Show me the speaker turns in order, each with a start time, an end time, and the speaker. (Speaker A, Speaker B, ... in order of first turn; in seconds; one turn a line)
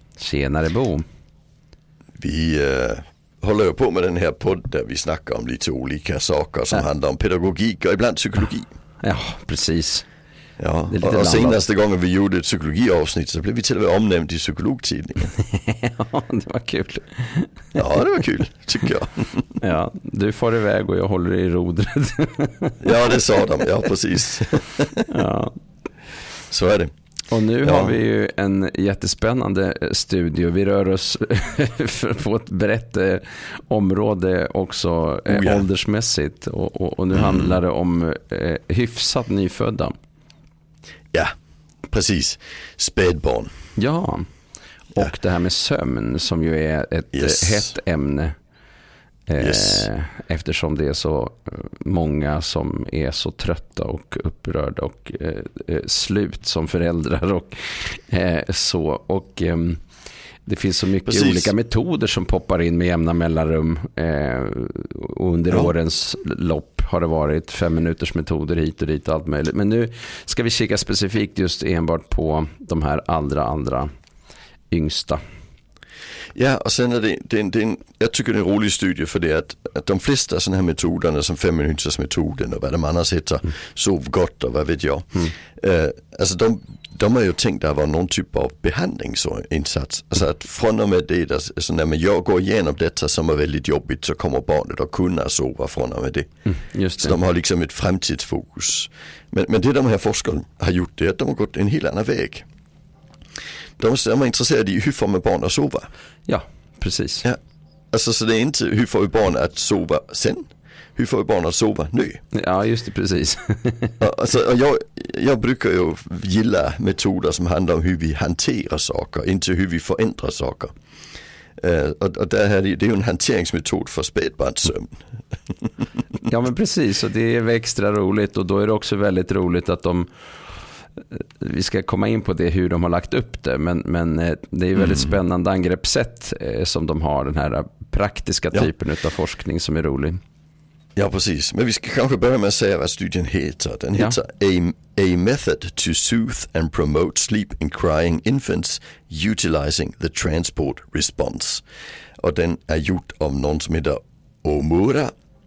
Speaker A: 0.2-1.0
Speaker B: 2.2-8.7
Speaker A: 9.0-10.1
Speaker B: 10.6-15.3
Speaker A: 10.9-11.6
Speaker A: 15.4-17.8
Speaker B: 17.7-19.6
Speaker A: 19.6-23.4
Speaker B: 22.8-25.1
Speaker A: 25.1-25.6
Speaker B: 26.5-26.9
Speaker A: 27.3-39.9
Speaker B: 27.6-28.0
Speaker B: 35.3-35.6
Speaker B: 37.1-37.6
Speaker B: 41.9-43.5
Speaker A: 43.8-44.3
Speaker A: 44.9-48.3
Speaker B: 47.1-47.7
Speaker A: 49.3-59.8
Speaker B: 49.4-49.9
Speaker A: 60.5-73.9
Speaker B: 61.0-61.5
Speaker A: 74.7-75.2
Speaker B: 76.3-96.3
Speaker A: 96.5-97.2
Speaker B: 97.0-102.4
Speaker B: 103.8-105.9
Speaker A: 106.3-107.2
Speaker B: 107.9-110.4
Speaker B: 111.0-112.2
Speaker A: 112.3-114.0
Speaker B: 114.0-120.7
Speaker B: 121.6-125.0
Speaker A: 126.2-140.2
Speaker B: 134.8-135.1
Speaker B: 140.9-151.6
Speaker B: 152.2-155.1